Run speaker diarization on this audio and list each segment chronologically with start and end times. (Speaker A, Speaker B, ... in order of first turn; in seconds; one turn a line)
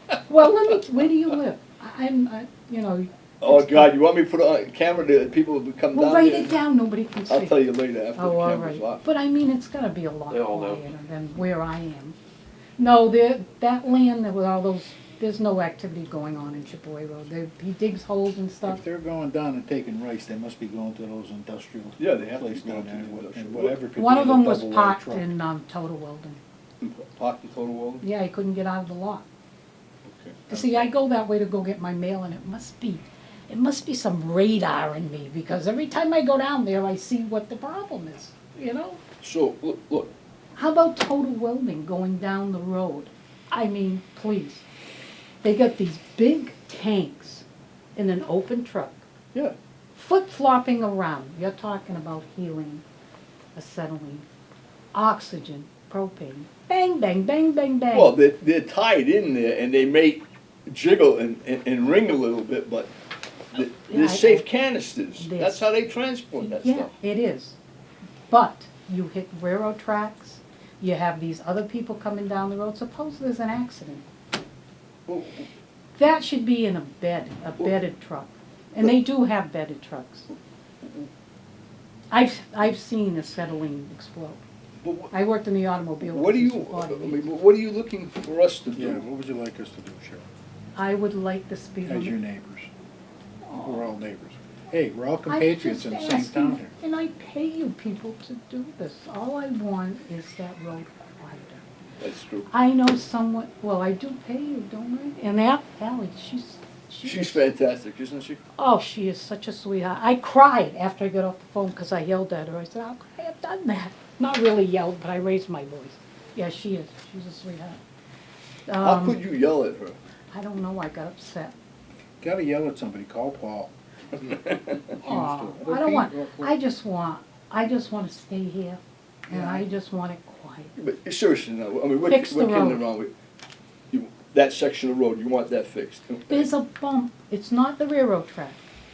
Speaker A: 0.3-3.9
Speaker B: 3.4-6.6
Speaker A: 5.9-7.6
Speaker B: 7.3-9.0
Speaker A: 8.1-12.2
Speaker B: 10.4-10.8
Speaker A: 12.8-18.8
Speaker C: 18.6-25.3
Speaker B: 22.0-23.8
Speaker A: 23.9-26.4
Speaker B: 26.8-28.0
Speaker A: 28.0-29.2
Speaker B: 30.1-30.9
Speaker A: 30.5-39.0
Speaker B: 39.2-40.1
Speaker A: 40.5-44.6
Speaker A: 45.4-47.4
Speaker A: 48.0-49.0
Speaker A: 49.9-52.8
Speaker A: 53.5-54.2
Speaker A: 54.9-58.2
Speaker B: 57.9-62.9
Speaker B: 63.5-66.9
Speaker A: 63.6-64.5
Speaker A: 65.2-65.7
Speaker A: 66.4-67.6
Speaker A: 68.3-74.1
Speaker B: 75.1-75.5
Speaker A: 76.0-80.3
Speaker A: 82.1-84.4
Speaker B: 84.8-85.1
Speaker A: 85.1-87.2
Speaker B: 86.0-89.0
Speaker C: 88.7-90.3
Speaker A: 90.7-92.1
Speaker C: 91.8-92.7
Speaker A: 93.4-93.9
Speaker C: 93.5-96.7
Speaker A: 95.3-101.7
Speaker B: 102.0-102.5
Speaker A: 102.5-107.4
Speaker B: 107.0-108.4
Speaker A: 108.6-117.8
Speaker A: 118.7-119.2
Speaker B: 118.8-120.0
Speaker A: 120.3-121.5
Speaker C: 122.2-123.7
Speaker B: 124.3-124.8
Speaker C: 124.9-126.5
Speaker A: 125.0-130.7
Speaker C: 129.3-129.6
Speaker B: 130.8-133.1
Speaker A: 132.0-132.8
Speaker B: 133.9-136.5
Speaker A: 136.3-138.6